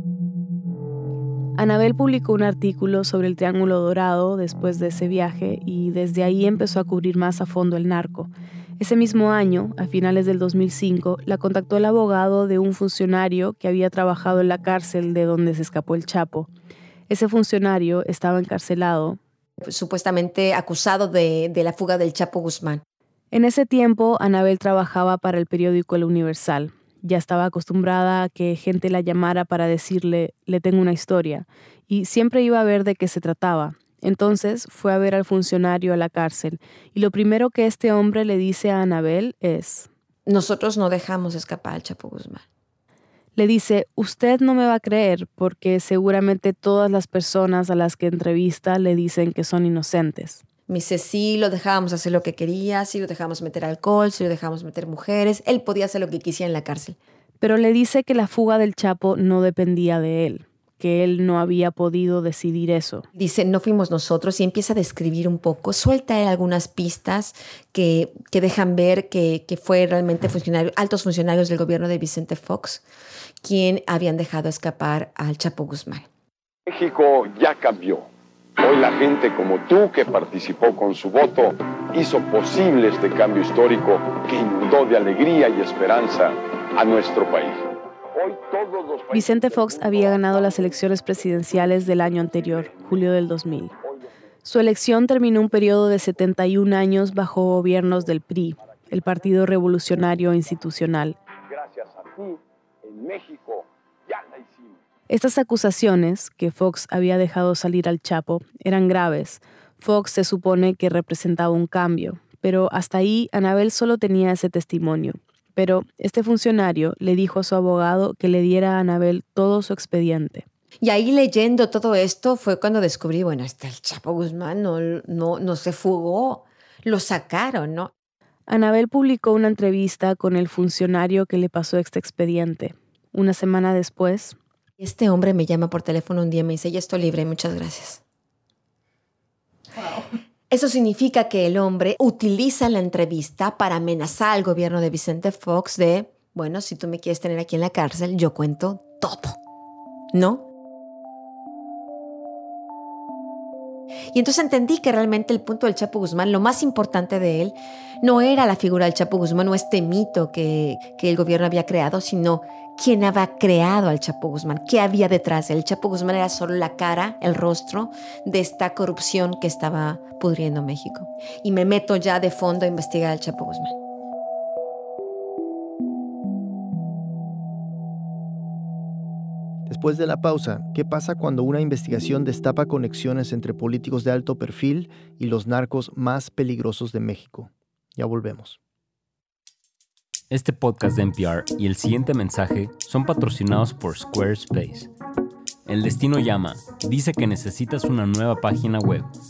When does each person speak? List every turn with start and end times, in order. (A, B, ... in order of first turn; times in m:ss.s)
0:01.6-0:16.5 A
0:17.1-0:19.2 A
0:19.6-0:22.8 B
0:23.3-0:39.9 A
0:40.3-0:42.4 B
0:43.4-0:50.4 A
0:50.7-0:57.0 B
0:57.4-1:03.1 A
1:03.2-1:12.8 B
1:13.4-1:16.1 B
1:16.7-1:18.1 C
1:18.6-1:30.6 C
1:29.1-1:33.7 A
1:34.4-1:41.2 A
1:41.5-1:44.8 C
1:45.1-2:00.4 A
2:00.8-2:07.9 B
2:08.5-2:14.4 A
2:14.8-2:18.0 B
2:20.5-2:29.4 B
2:30.1-2:30.4 B
2:34.1-2:53.8 B
2:59.7-3:08.6 D
3:10.3-3:14.9 E
3:15.7-3:19.1 E